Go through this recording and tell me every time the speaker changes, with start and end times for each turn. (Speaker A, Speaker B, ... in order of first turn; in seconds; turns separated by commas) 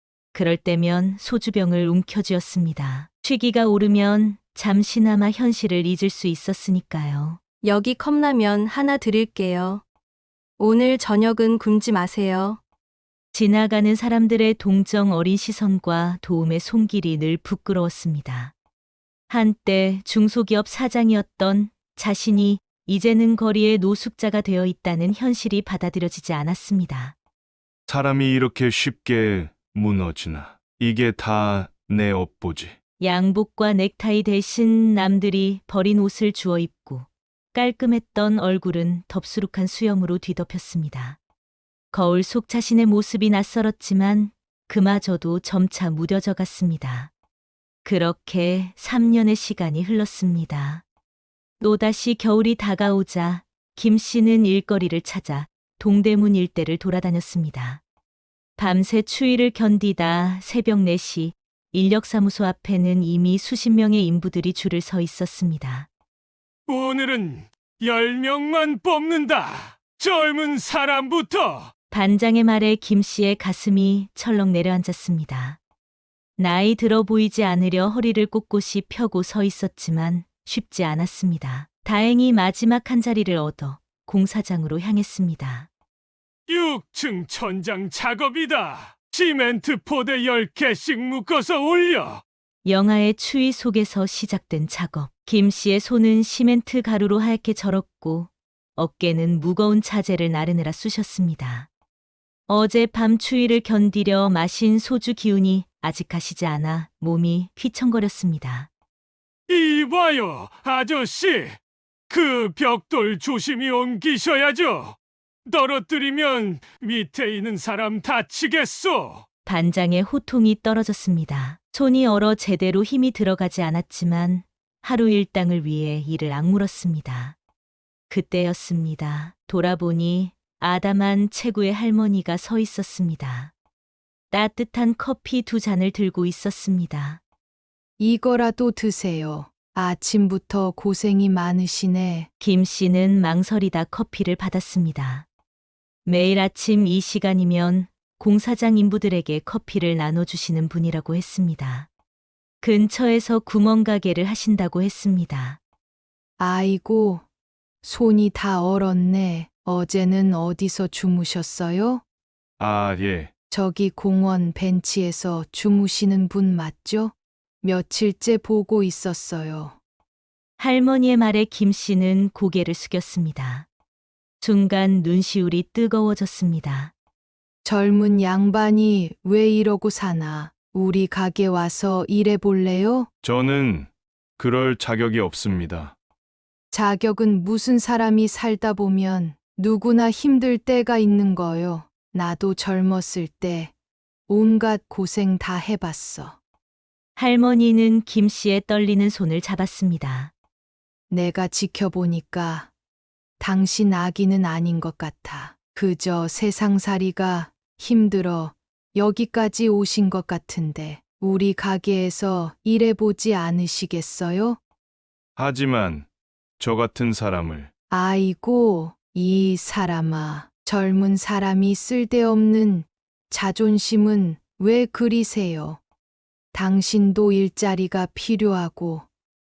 Speaker A: 0.3-7.4, Speaker B: 7.6-9.8, Speaker B: 10.6-12.6, Speaker A: 13.3-18.5, Speaker A: 19.3-27.1, Speaker C: 27.9-32.8, Speaker A: 33.0-41.2, Speaker A: 41.9-47.1, Speaker A: 47.9-50.8, Speaker A: 51.6-57.8, Speaker A: 58.6-65.9, Speaker D: 66.7-71.7, Speaker A: 71.9-75.6, Speaker A: 76.4-85.7, Speaker D: 86.5-92.2, Speaker A: 92.6-101.7, Speaker A: 102.5-108.7, Speaker D: 109.5-111.6, Speaker D: 112.1-119.2, Speaker A: 119.5-127.4, Speaker A: 128.1-133.5, Speaker A: 134.3-137.2, Speaker E: 138.0-142.3, Speaker A: 142.4-145.2, Speaker A: 146.1-151.9, Speaker A: 152.6-155.6, Speaker E: 156.4-157.2, Speaker E: 157.8-162.0, Speaker C: 162.6-163.3, Speaker E: 163.5-169.8, Speaker A: 170.6-173.7, Speaker A: 174.4-176.9, Speaker E: 177.6-183.1, Speaker C: 183.2-185.9, Speaker E: 186.7-193.7, Speaker E: 194.3-196.4, Speaker A: 197.2-200.3, Speaker E: 201.1-202.7, Speaker E: 203.4-214.6, Speaker C: 215.4-216.1, Speaker C: 216.6-217.7, Speaker E: 217.9-225.8, Speaker E: 226.5-229.1